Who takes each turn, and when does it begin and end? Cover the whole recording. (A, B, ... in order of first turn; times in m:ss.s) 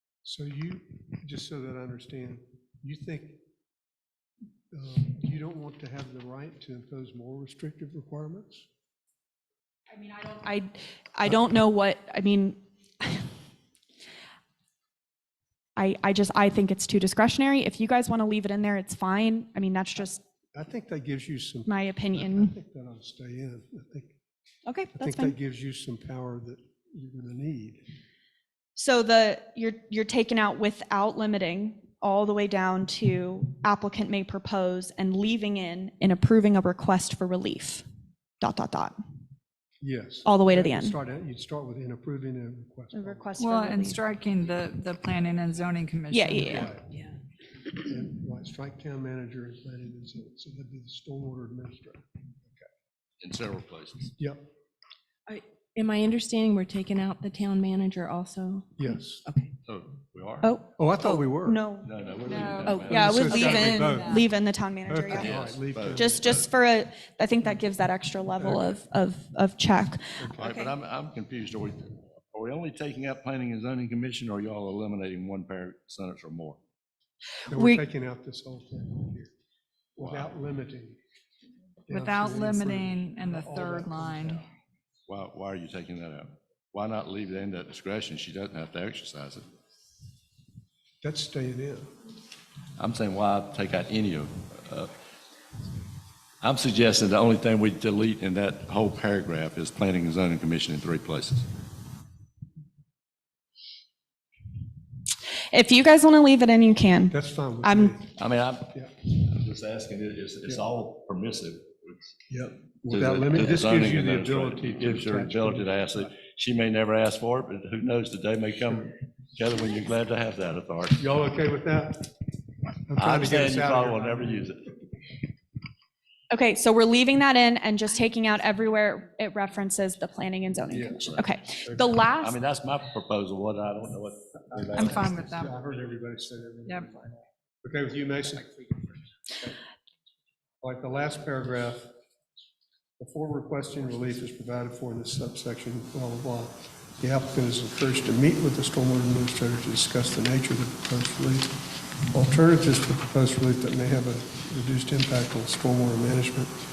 0:00.2-0:03.4 A
0:04.7-0:08.7 A
0:09.9-0:13.3 B
0:15.8-0:20.2 B
0:20.5-0:24.2 A
0:21.6-0:22.6 B
0:24.6-0:25.3 B
0:25.0-0:27.8 A
0:28.8-0:37.8 B
0:38.4-0:39.0 B
0:39.8-0:43.4 A
0:40.2-0:41.0 B
0:42.9-0:44.0 B
0:43.4-0:46.7 C
0:46.1-0:46.7 B
0:46.4-0:46.9 A
0:47.8-0:52.6 A
0:53.2-0:54.1 D
0:54.2-0:54.5 A
0:55.3-0:59.5 E
0:58.8-0:59.2 A
0:59.6-1:00.5 D
1:00.4-1:05.3 B
1:00.8-1:01.6 A
1:01.8-1:03.7 D
1:02.3-1:04.3 C
1:02.9-1:04.2 A
1:04.9-1:06.2 A
1:05.1-1:06.4 D
1:05.9-1:10.7 B
1:08.4-1:08.8 A
1:10.2-1:10.6 A
1:10.4-1:16.6 D
1:17.5-1:17.8 B
1:17.5-1:19.3 A
1:20.0-1:21.0 A
1:20.0-1:20.3 D
1:21.9-1:24.4 A
1:21.9-1:24.4 C
1:25.1-1:29.4 D
1:31.0-1:31.9 A
1:32.8-1:34.9 D
1:36.4-1:41.5 D
1:45.5-1:48.0 B
1:47.1-1:48.2 A
1:48.2-1:52.2 D
1:48.7-1:49.0 A
1:52.3-1:56.1 A
1:52.9-2:01.0 D
2:01.0-2:02.1 A
2:02.9-2:04.5 A
2:03.0-2:04.6 D
2:06.3-2:12.4 B
2:10.7-2:11.1 A
2:11.6-2:11.9 A
2:12.2-2:15.2 D
2:14.6-2:19.6 A
2:14.8-2:15.5 C
2:20.6-2:21.9 A
2:23.0-2:31.5 A
2:32.1-2:36.5 A